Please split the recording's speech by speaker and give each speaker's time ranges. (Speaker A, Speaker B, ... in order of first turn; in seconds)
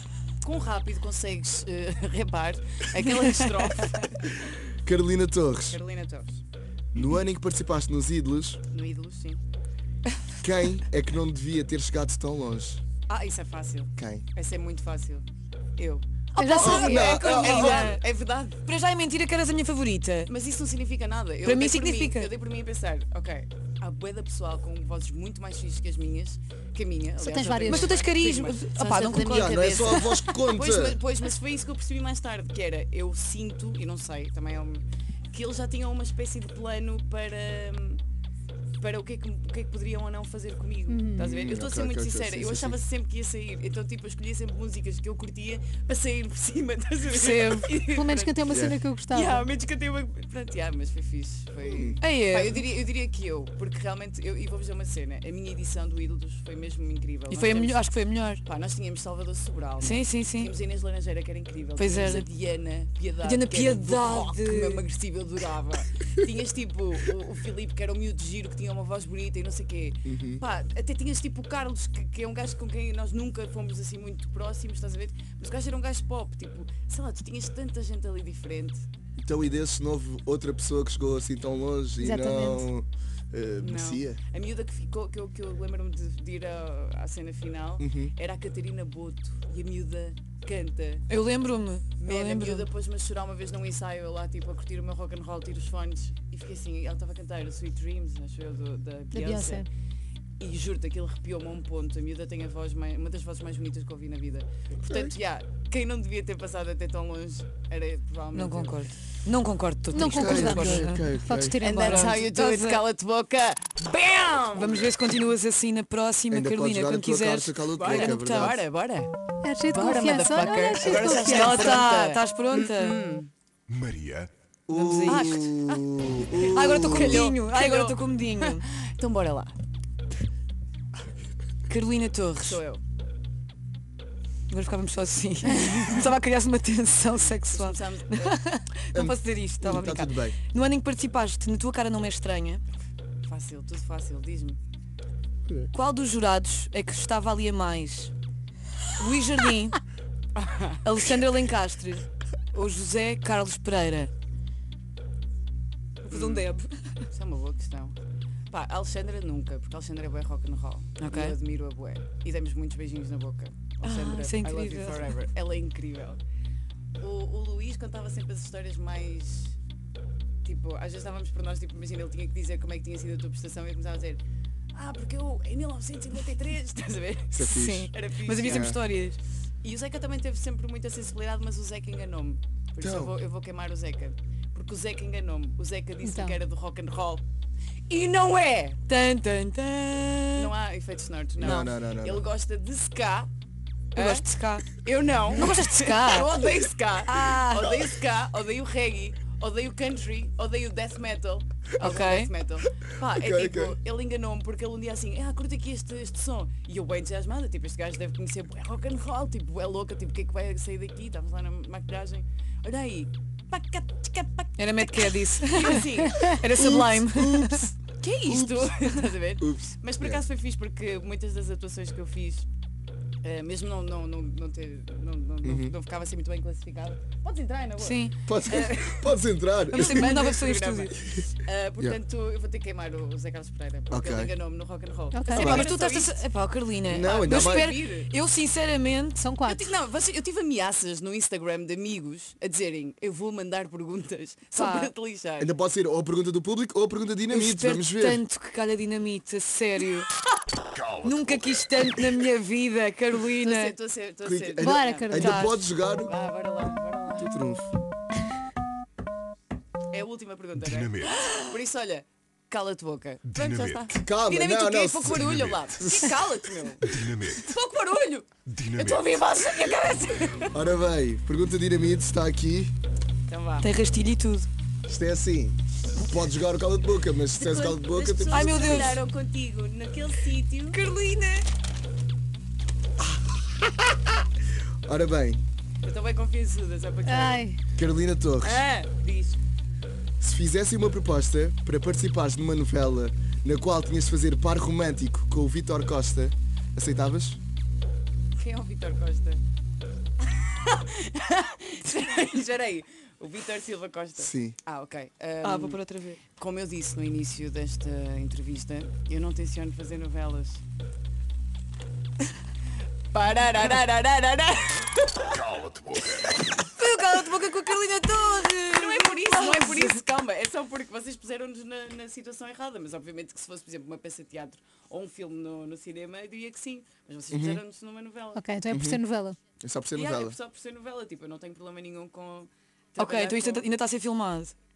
Speaker A: 0.4-4.6, 5.7-6.4, 8.7-9.4, 13.1-15.2, 15.8-16.1, 16.6-18.6, 20.3-38.0, 38.8-48.5, 49.1-57.8, 58.4-78.8, 83.6-91.0, 92.0-99.7, 100.4-108.9, 111.6-114.9, 117.8-119.1, 119.7-123.3, 125.0-129.6, 132.3-132.8, 135.6-136.1, 137.5-138.3, 143.2-144.6, 150.3-150.8, 156.1-158.0, 158.5-166.2, 167.0-169.6, 170.4-174.2, 174.7-178.8, 179.6-187.2, 187.9-188.8, 190.3-193.3, 193.9-216.4, 218.0-222.5, 223.2-236.2, 236.9-238.1, 239.4-245.5, 253.4-255.4, 256.0-257.3, 259.9-270.6, 273.3-273.7, 277.3-280.8, 285.8-287.5, 288.4-289.4, 298.3-299.4, 300.3-310.6, 313.1-315.4, 315.9-316.3, 318.7-328.4, 329.9-333.7
Speaker B: 3.0-3.7, 16.4-18.0, 18.6-20.3, 21.4-22.3, 27.6-30.2, 47.1-47.8, 52.0-52.6, 57.3-58.4, 59.8-60.5, 61.8-62.3, 63.2-64.8, 91.1-92.7, 108.3-111.0, 111.7-112.8, 114.5-118.6, 120.9-123.0, 124.7-125.5, 126.5-128.6, 131.7-132.6, 134.5-142.6, 145.7-148.1, 149.0-149.8, 150.8-154.1, 156.0-156.7, 161.0-161.3, 163.8-165.1, 177.4-179.2, 188.9-190.5, 191.4-191.7, 193.9-194.7, 195.3-196.3, 197.0-197.7, 201.8-202.3, 214.6-217.7, 227.8-228.1, 229.7-231.0, 235.3-239.2, 244.5-244.9, 247.3-250.1, 251.0-253.7, 255.1-255.6, 261.1-261.5, 273.6-274.5, 278.3-279.0, 280.7-281.4, 305.4-306.2, 316.7-320.0, 333.0-334.5
Speaker C: 4.8-5.8, 6.9-8.6, 10.4-12.8, 14.0-14.2, 16.6-17.9, 29.1-31.0, 41.2-42.8, 48.5-48.8, 51.6-52.0, 70.0-70.4, 79.2-84.2, 87.8-88.1, 104.8-105.2, 110.0-111.6, 116.3-118.6, 124.7-127.3, 138.9-140.4, 177.3-177.9, 178.4-178.8, 182.8-183.1, 191.4-192.2, 203.1-203.8, 216.5-217.7, 218.2-218.8, 219.4-220.2, 225.4-225.7, 228.2-230.1, 233.9-234.3, 235.3-235.7, 236.9-237.7, 245.4-248.2, 254.2-256.1, 257.1-257.7, 263.9-266.2, 270.5-272.7, 274.9-279.0, 283.2-283.8, 284.8-285.4, 287.8-288.6, 290.2-297.4, 304.2-304.6, 327.3-327.6, 328.7-329.0, 329.6-330.4
Speaker D: 16.3-17.2, 27.2-28.0, 40.9-41.3, 47.9-49.5, 82.0-82.7, 99.1-99.7, 109.9-112.2, 119.4-121.8, 186.0-186.4, 235.1-235.7, 239.2-239.7, 254.6-255.5, 287.1-287.6, 328.3-329.4
Speaker E: 123.7-124.3, 250.7-251.7, 260.5-261.2, 263.3-263.9, 265.1-265.7, 266.8-267.5, 268.4-269.2, 315.4-316.0